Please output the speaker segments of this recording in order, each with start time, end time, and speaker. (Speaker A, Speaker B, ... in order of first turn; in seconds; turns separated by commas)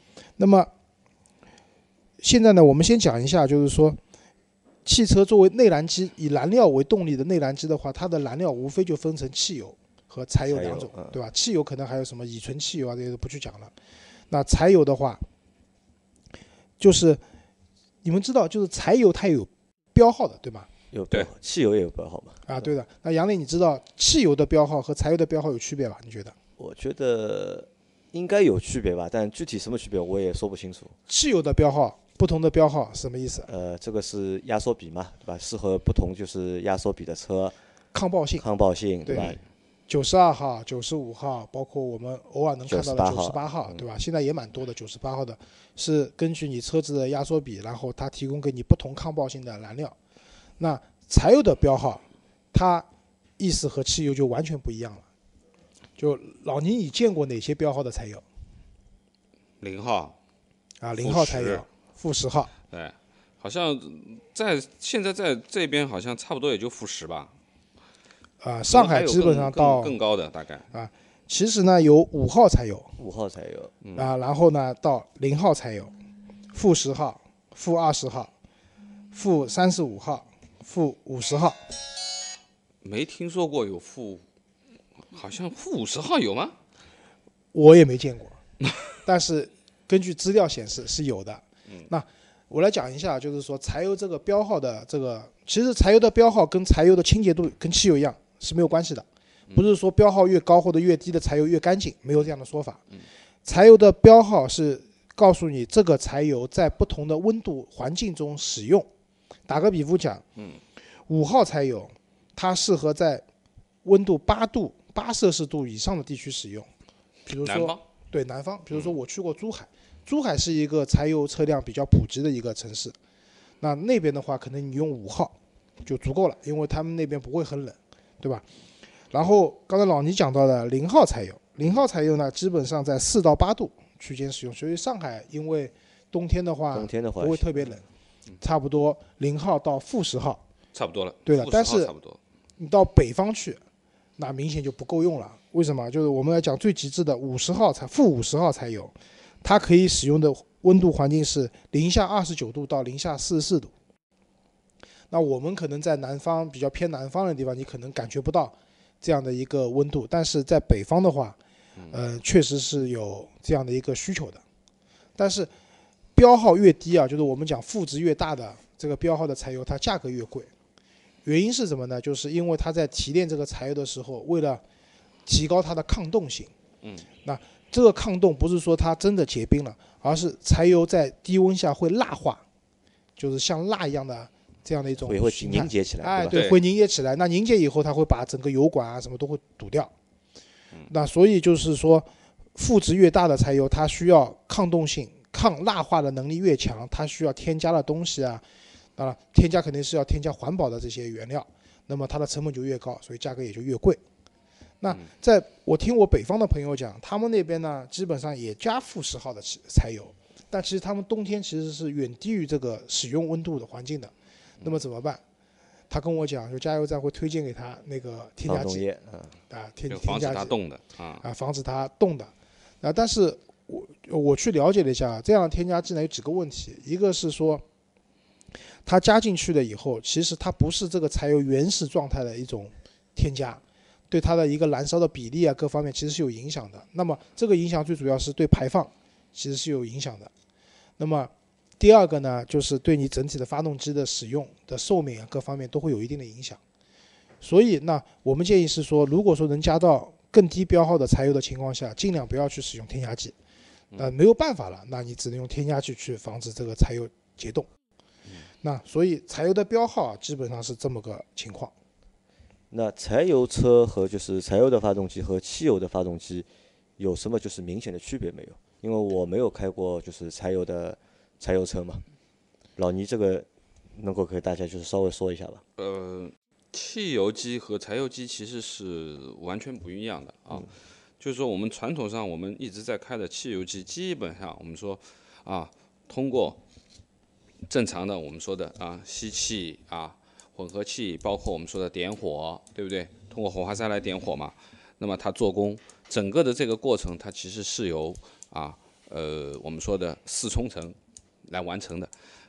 Speaker A: 0.4-0.7, Speaker A: 2.2-4.0, Speaker A: 4.8-13.7, Speaker B: 10.5-11.2, Speaker A: 14.3-15.2, Speaker A: 16.8-17.2, Speaker A: 18.0-20.7, Speaker B: 20.9-22.7, Speaker A: 22.5-26.4, Speaker B: 26.6-30.9, Speaker A: 31.1-33.5, Speaker B: 33.5-37.6, Speaker A: 37.9-38.4, Speaker B: 38.4-39.4, Speaker A: 39.1-39.4, Speaker A: 39.9-50.0, Speaker B: 42.7-43.8, Speaker A: 50.6-52.9, Speaker A: 53.4-55.0, Speaker A: 56.0-58.2, Speaker C: 59.6-60.2, Speaker A: 60.8-62.5, Speaker C: 61.0-61.6, Speaker C: 62.7-67.3, Speaker A: 68.4-70.0, Speaker C: 68.7-70.7, Speaker A: 70.7-73.0, Speaker B: 73.0-73.7, Speaker C: 73.8-74.1, Speaker A: 74.0-75.9, Speaker A: 76.5-78.3, Speaker A: 79.1-81.6, Speaker C: 82.8-84.2, Speaker C: 85.1-86.6, Speaker A: 87.5-88.4, Speaker A: 89.0-102.8, Speaker A: 103.5-108.9, Speaker A: 109.5-110.2, Speaker A: 111.1-113.2, Speaker A: 113.8-116.7, Speaker A: 117.3-123.0, Speaker C: 117.4-117.8, Speaker A: 123.6-125.3, Speaker A: 125.9-128.4, Speaker A: 129.1-137.8, Speaker B: 136.7-137.7, Speaker A: 138.4-140.4, Speaker C: 140.7-142.2, Speaker A: 141.3-141.9, Speaker A: 142.6-143.6, Speaker A: 144.2-153.7, Speaker A: 155.1-161.4, Speaker A: 161.9-164.4, Speaker A: 165.2-165.5, Speaker A: 166.2-170.5, Speaker A: 171.2-174.6, Speaker A: 175.3-176.5, Speaker A: 177.2-182.4, Speaker A: 183.2-189.9, Speaker B: 185.1-186.5, Speaker C: 186.3-186.6, Speaker A: 190.9-198.4, Speaker A: 199.0-204.0, Speaker A: 204.8-215.2, Speaker A: 215.9-218.9, Speaker B: 218.5-219.4, Speaker A: 219.5-220.5, Speaker C: 219.9-221.2, Speaker A: 221.2-222.3, Speaker A: 222.8-227.6, Speaker A: 228.9-240.3, Speaker A: 241.0-246.6, Speaker A: 247.4-253.3, Speaker A: 254.0-257.7, Speaker A: 258.6-261.7, Speaker B: 262.7-266.5, Speaker B: 267.0-272.0, Speaker B: 272.8-275.6, Speaker C: 275.8-286.6, Speaker C: 287.7-301.0, Speaker C: 301.5-302.1